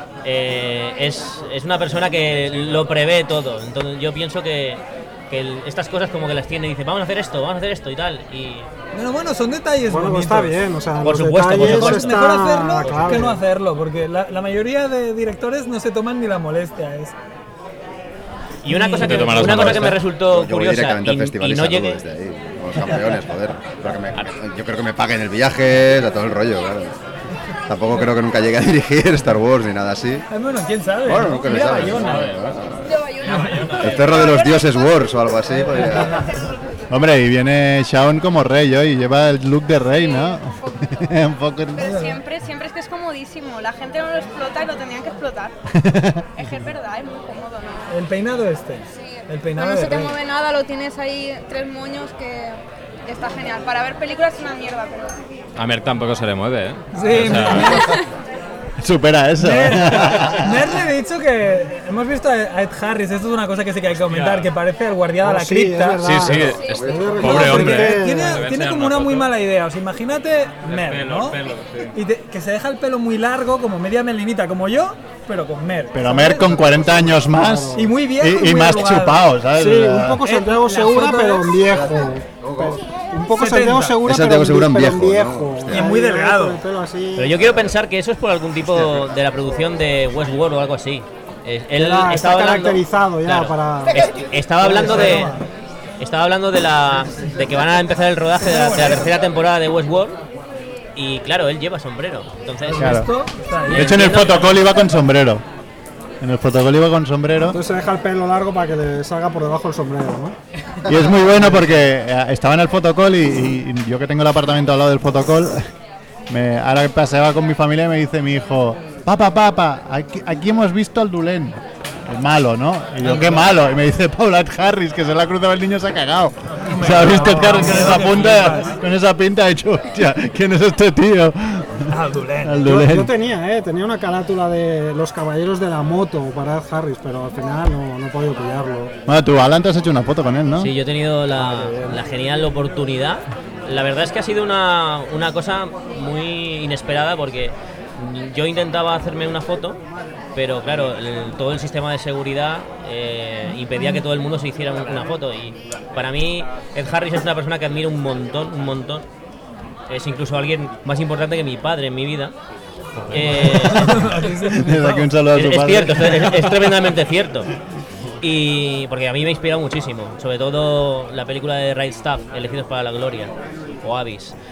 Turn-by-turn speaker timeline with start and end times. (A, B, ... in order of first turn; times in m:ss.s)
0:00.2-0:08.7 A
0:02.5-0:02.8 B
0:08.9-0:10.6 C
0:09.9-0:13.4 D
0:11.0-0:12.3 A
0:11.6-0:17.2 C
0:12.9-0:13.1 A
0:18.6-0:22.0 A
0:18.7-0:19.6 C
0:19.0-0:20.0 B
0:20.1-0:27.0 E
0:27.7-0:30.3 E
0:30.3-0:32.3 C
0:31.0-0:32.9 E
0:31.8-0:32.6 B
0:32.8-0:35.2 F
0:33.2-0:34.0 B
0:33.8-0:36.3 E
0:36.9-0:42.0 G
0:39.9-0:40.7 F
0:41.8-0:45.5 F
0:41.8-0:42.2 C
0:45.7-0:46.5 G
0:46.4-0:47.9 F
0:47.9-0:50.2 C
0:49.0-0:55.1 F
0:55.6-0:58.0 B
0:56.9-0:58.0 C
0:58.8-1:00.6 G
0:59.4-1:06.1 C
1:03.9-1:04.5 B
1:05.2-1:08.4 D
1:06.0-1:09.3 B
1:06.3-1:07.2 E
1:06.6-1:06.9 F
1:07.2-1:11.4 C
1:10.6-1:12.0 B
1:11.9-1:16.6 C
1:15.9-1:20.2 G
1:16.4-1:17.9 D
1:17.8-1:21.6 C
1:19.6-1:27.6 D
1:21.6-1:22.8 E
1:23.4-1:24.0 C
1:24.0-1:25.9 E
1:25.7-1:26.6 C
1:27.2-1:35.3 A
1:31.8-1:35.4 D
1:34.7-1:35.4 C
1:36.0-1:40.2 A
1:38.4-1:39.1 C
1:41.0-1:43.0 A
1:42.6-1:44.1 C
1:42.8-1:43.1 G
1:43.7-1:44.6 A
1:43.7-1:45.4 G
1:46.2-1:47.6 G
1:47.5-1:50.4 D
1:50.9-1:55.7 G
1:56.3-2:11.9 G
2:03.0-2:03.5 C
2:06.6-2:08.8 C
2:11.9-2:12.6 C
2:12.4-2:13.1 G
2:12.6-2:18.9 D
2:19.1-2:20.7 G
2:20.6-2:29.8 A
2:21.3-2:22.0 D
2:30.4-2:39.1 A
2:39.9-2:42.4 A
2:43.1-2:44.0 A
2:43.4-2:46.6 G
2:43.4-2:45.1 C
2:45.3-2:47.5 A
2:48.2-2:54.4 A